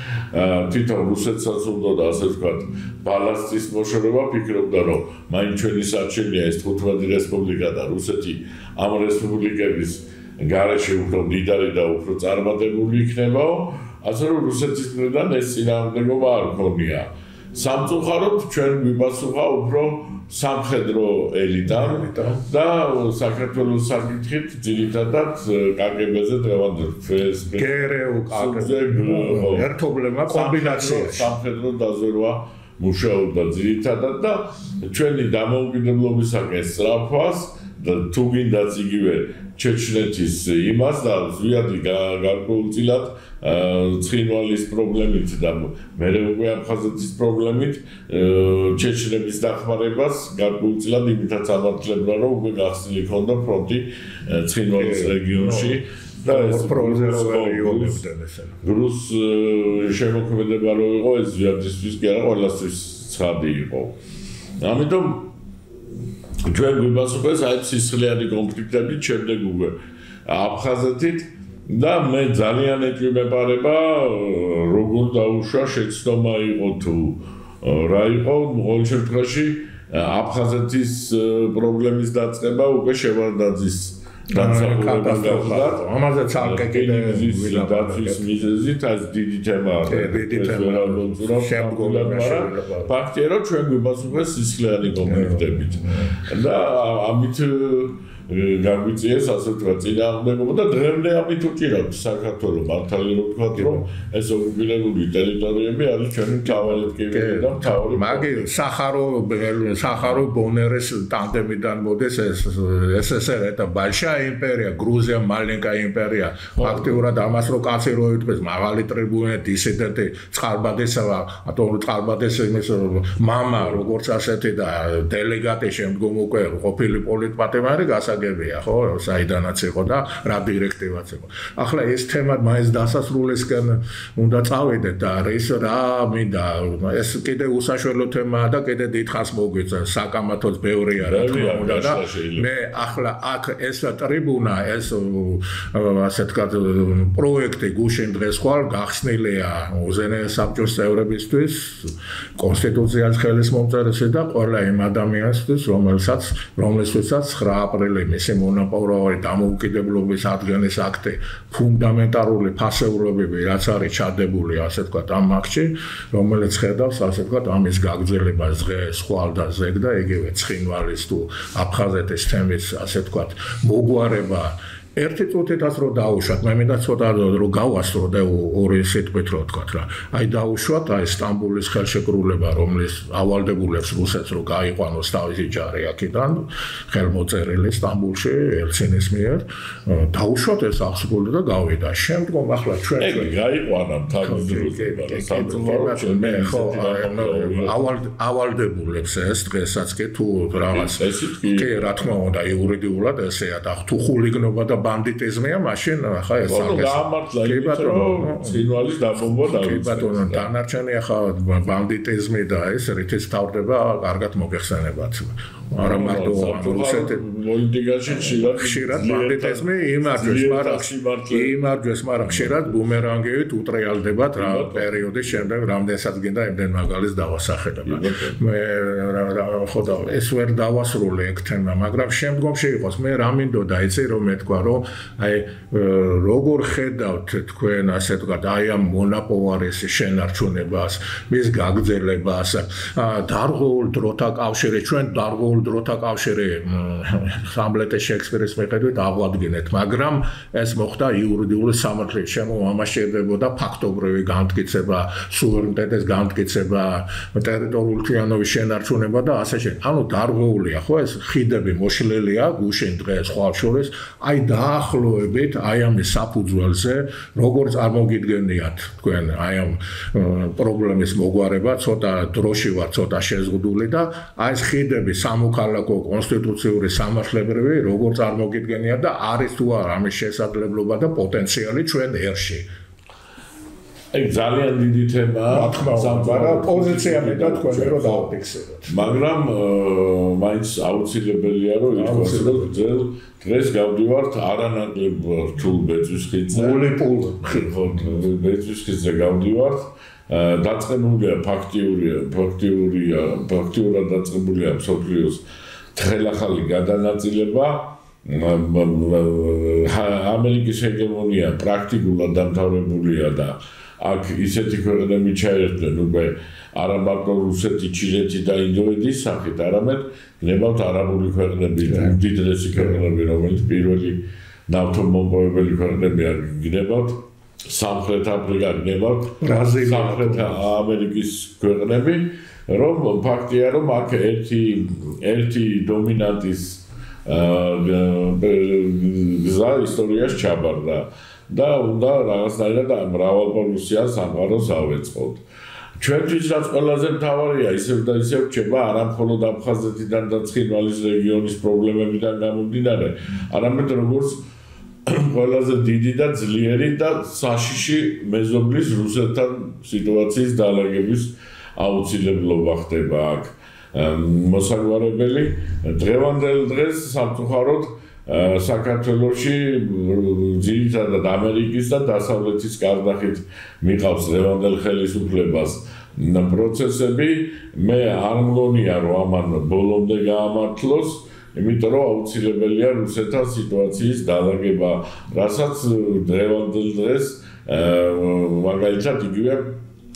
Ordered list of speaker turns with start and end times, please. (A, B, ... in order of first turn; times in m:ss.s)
0:00.3-0:29.7 A
0:21.7-0:22.4 B
0:27.6-0:31.3 B
0:30.3-0:58.0 A
0:54.8-0:58.6 B
0:58.6-1:04.0 A
1:04.6-1:05.3 A
1:06.4-1:25.8 A
1:24.3-1:28.4 B
1:26.4-1:48.5 A
1:29.9-1:32.9 B
1:35.0-1:36.2 B
1:46.5-3:13.4 B
1:56.6-1:57.0 A
2:03.6-2:03.8 A
2:21.0-2:22.5 A
3:13.0-3:17.8 A
3:14.2-3:28.6 B
3:20.7-3:22.1 A
3:26.4-3:30.5 A
3:29.2-3:37.2 B
3:35.8-3:41.6 A
3:38.1-4:42.7 B
3:42.2-3:42.8 A
3:44.4-3:45.5 A
3:47.9-3:48.4 A
4:44.1-4:48.3 A
4:45.5-4:49.2 B
4:48.9-4:56.9 A
4:51.9-4:52.8 B
4:56.5-4:57.9 B
4:57.4-5:05.4 A
5:06.0-5:45.4 A
5:29.4-5:30.6 B
5:46.0-5:54.4 A
5:55.1-6:29.8 A